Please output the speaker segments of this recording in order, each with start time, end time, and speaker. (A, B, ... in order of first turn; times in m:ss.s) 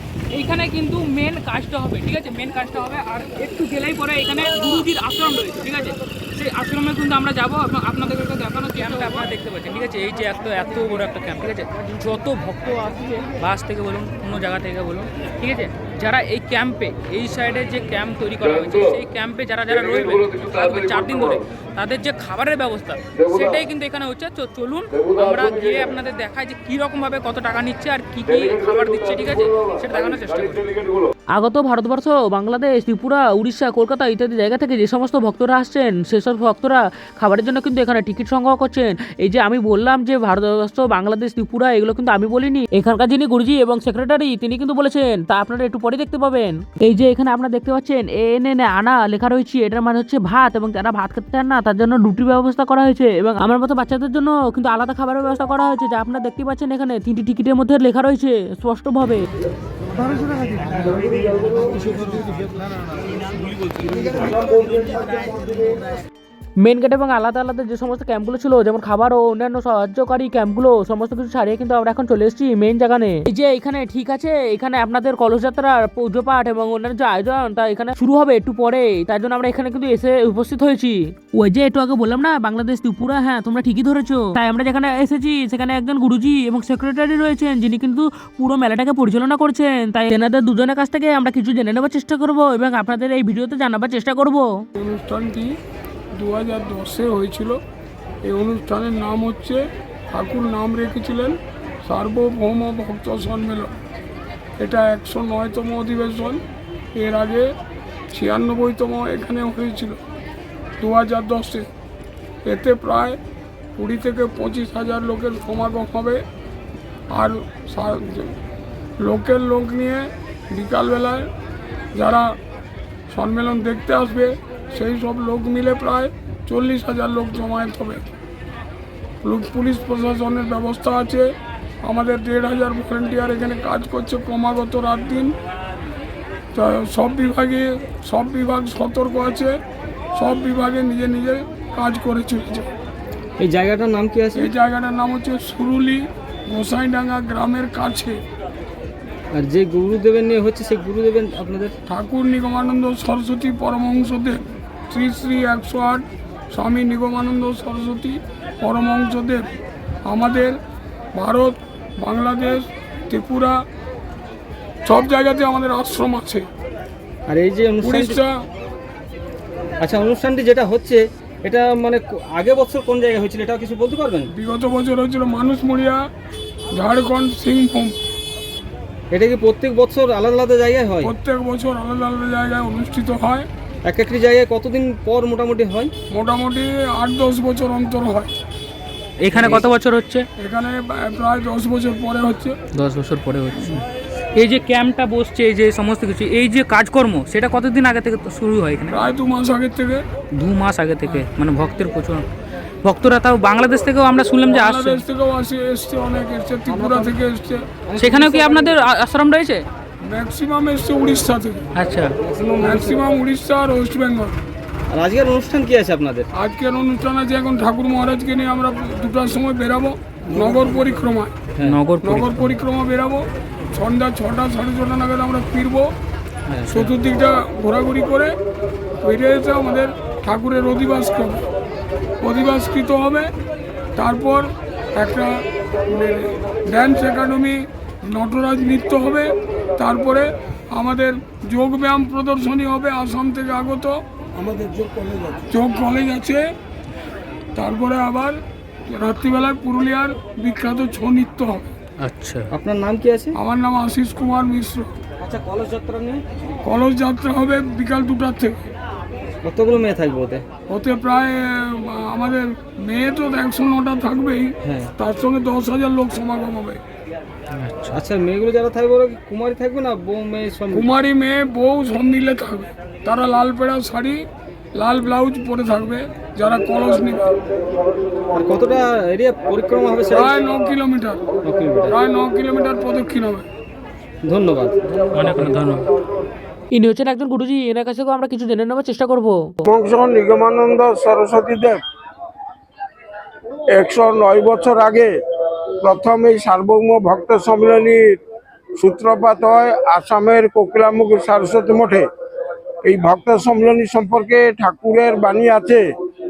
0:00.3-0:30.8 A
0:31.3-0:59.3 B
1:06.6-1:34.5 B
1:34.8-1:35.5 C
1:36.2-1:37.6 C
1:38.2-1:43.7 C
1:44.6-1:46.4 C
1:47.0-1:47.5 C
1:48.1-1:50.0 C
1:50.8-1:51.7 C
1:52.4-1:53.2 C
1:53.8-1:56.2 C
1:57.1-1:58.4 C
1:59.0-2:01.3 C
2:02.0-2:02.3 C
2:03.1-2:08.0 C
2:09.2-2:11.3 C
2:11.8-2:15.3 C
2:16.5-2:19.6 C
2:20.2-2:22.7 C
2:23.4-2:24.5 D
2:24.4-2:28.2 C
2:29.3-2:31.7 D
2:31.9-2:39.5 C
2:40.1-2:40.6 C
2:41.2-2:43.6 C
2:44.9-2:46.5 C
2:47.3-2:48.2 D
2:47.8-2:48.3 C
2:49.8-2:54.3 D
2:54.4-2:56.0 C
2:56.8-2:58.0 C
2:59.1-3:01.1 D
3:01.0-3:03.5 C
3:03.8-3:05.9 D
3:06.1-3:08.4 C
3:09.3-3:10.2 A
3:09.3-3:09.7 D
3:10.4-3:12.6 C
3:12.8-3:13.8 A
3:14.4-3:19.0 A
3:18.9-3:20.0 C
3:20.4-3:22.2 A
3:22.8-3:25.0 A
3:24.5-3:27.7 C
3:26.7-3:27.2 D
3:27.9-3:28.7 D
3:28.0-3:29.7 A
3:30.0-3:31.6 C
3:31.8-3:32.1 A
3:32.2-3:33.0 D
3:32.6-3:34.3 C
3:34.9-3:36.3 D
3:36.4-3:41.4 C
3:40.3-3:41.1 D
3:41.6-3:42.5 A
3:42.0-3:45.9 C
3:46.5-3:46.8 A
3:46.7-3:48.4 C
3:49.0-3:51.4 C
3:52.2-3:53.3 C
3:54.0-4:06.4 C
4:07.6-4:11.8 C
4:12.0-4:12.5 B
4:12.5-4:13.4 D
4:13.4-4:14.9 C
4:15.2-4:16.2 D
4:16.6-4:18.6 C
4:19.4-4:20.5 D
4:20.7-4:26.8 C
4:24.6-4:24.9 D
4:27.6-4:27.9 A
4:27.9-4:30.9 D
4:30.7-4:37.3 C
4:38.3-4:40.4 D
4:40.1-4:41.2 C
4:41.4-4:42.0 D
4:41.9-4:43.5 C
4:44.2-4:45.6 D
4:45.1-4:45.9 A
4:46.7-4:49.6 B
4:49.7-4:51.8 E
4:53.7-4:55.1 E
4:55.8-4:58.2 E
4:58.8-5:02.1 E
5:02.8-5:05.8 E